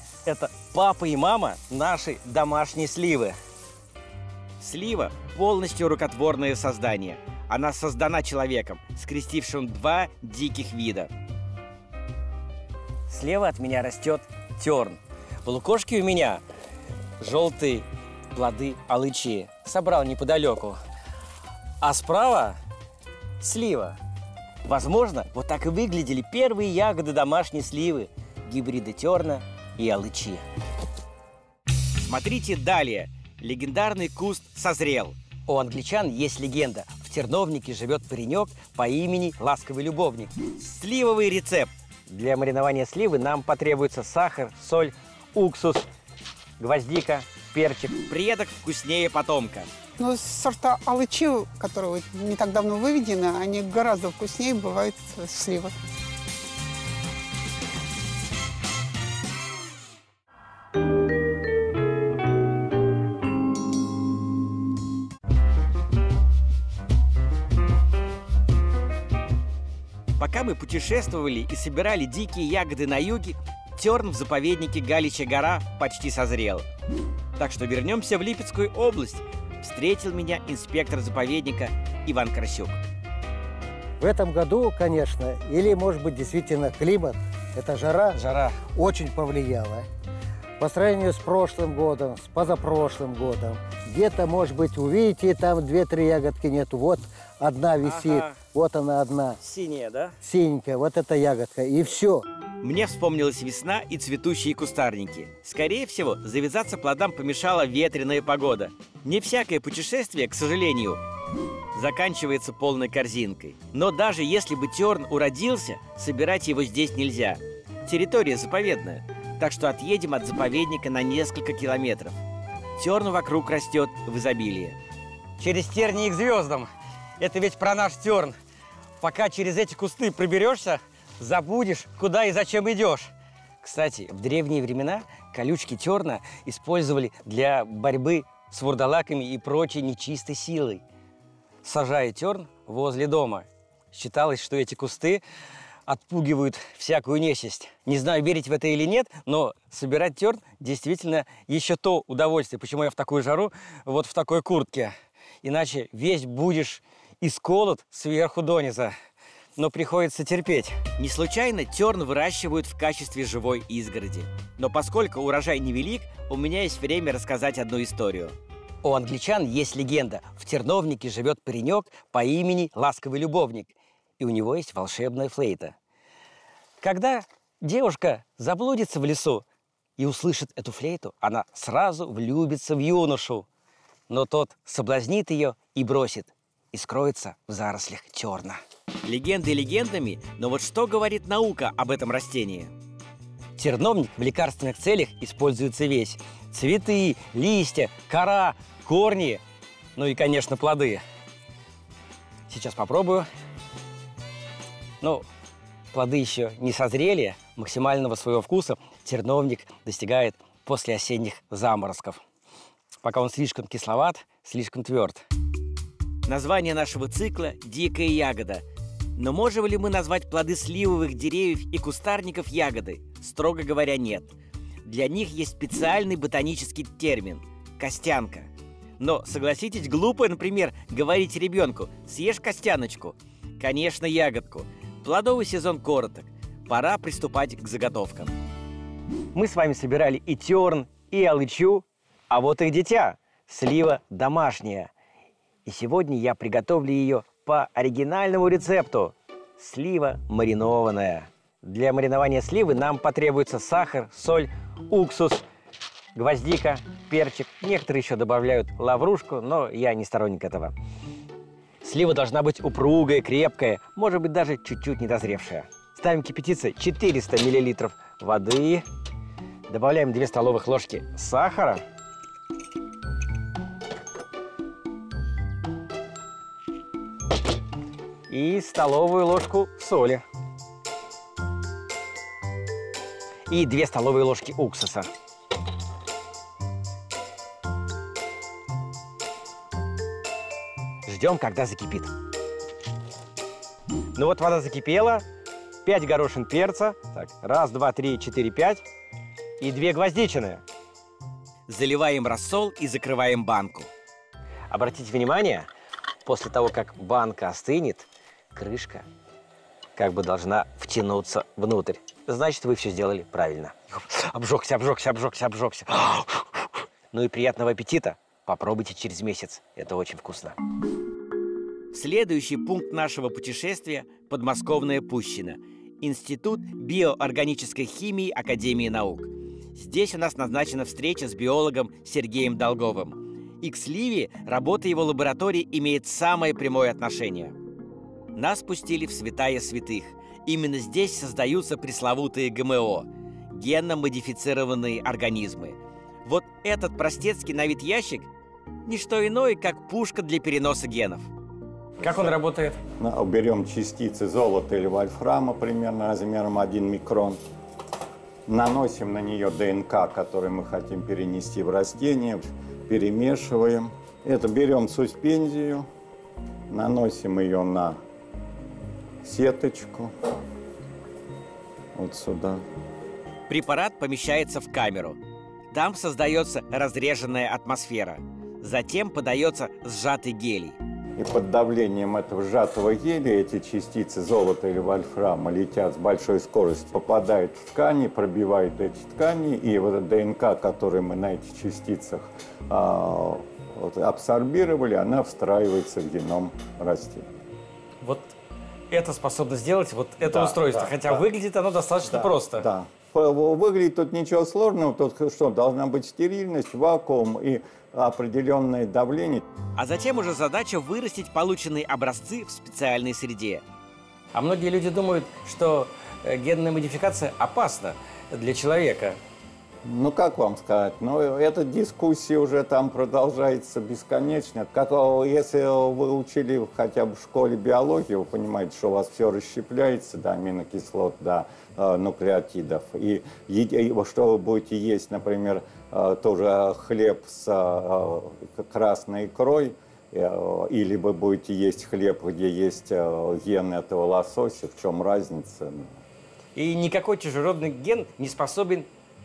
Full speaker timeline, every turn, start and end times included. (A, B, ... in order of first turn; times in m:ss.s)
0:00.2-0:03.3 A
0:04.6-0:11.1 A
0:13.1-0:16.4 A
0:17.2-0:20.8 A
0:21.8-0:22.6 A
0:23.4-0:24.0 A
0:24.6-0:30.4 A
0:32.0-0:45.9 A
0:46.6-0:49.7 A
0:50.0-0:55.7 B
1:10.2-1:16.7 A
1:17.4-1:22.8 A
1:24.0-1:28.2 C
1:28.1-1:28.6 A
1:28.7-1:29.9 C
1:30.6-1:39.4 C
1:37.8-1:38.4 A
1:39.4-1:40.2 A
1:40.2-1:42.2 C
1:42.6-1:51.0 A
1:51.7-2:02.2 A
2:02.8-2:04.8 A
2:05.4-2:08.3 A
2:09.0-2:13.1 A
2:13.6-2:20.8 A
2:21.6-2:25.2 A
2:25.9-2:38.9 A
2:39.6-2:55.7 A
2:56.8-2:59.4 A
3:00.0-3:03.5 A
3:04.1-3:12.7 A
3:13.6-3:19.4 A
3:20.0-3:21.0 A
3:22.5-3:23.3 A
3:25.9-3:32.2 A
3:33.0-3:35.2 A
3:36.3-3:38.6 A
3:39.2-3:58.3 A
3:59.3-4:04.9 A
4:05.6-4:15.4 A
4:16.1-4:20.7 A
4:21.8-4:28.8 A
4:29.7-4:31.8 A
4:38.3-4:40.2 A
4:43.5-4:45.1 A
4:51.0-4:52.1 A
4:54.1-4:55.2 A
4:55.8-4:58.8 A
4:59.6-5:00.6 A
5:01.7-5:03.9 A
5:04.7-5:05.7 A
5:06.2-5:09.0 A
5:10.0-5:20.6 A
5:21.9-5:37.6 A
5:38.3-5:48.3 A
5:48.8-5:51.3 A
5:52.0-5:52.8 A
5:53.0-5:57.4 D
5:58.5-6:05.9 D
6:06.7-6:08.0 D
6:09.2-6:10.1 D
6:11.9-6:12.6 D
6:13.5-6:15.2 A
6:15.7-6:20.8 A
6:21.2-6:37.3 D
6:38.0-6:38.3 A
6:38.9-6:42.7 A
6:40.2-6:41.2 D
6:42.0-6:49.5 D
6:49.8-6:53.6 A
6:54.3-6:59.2 A
6:59.8-7:26.0 D
7:26.5-7:28.9 A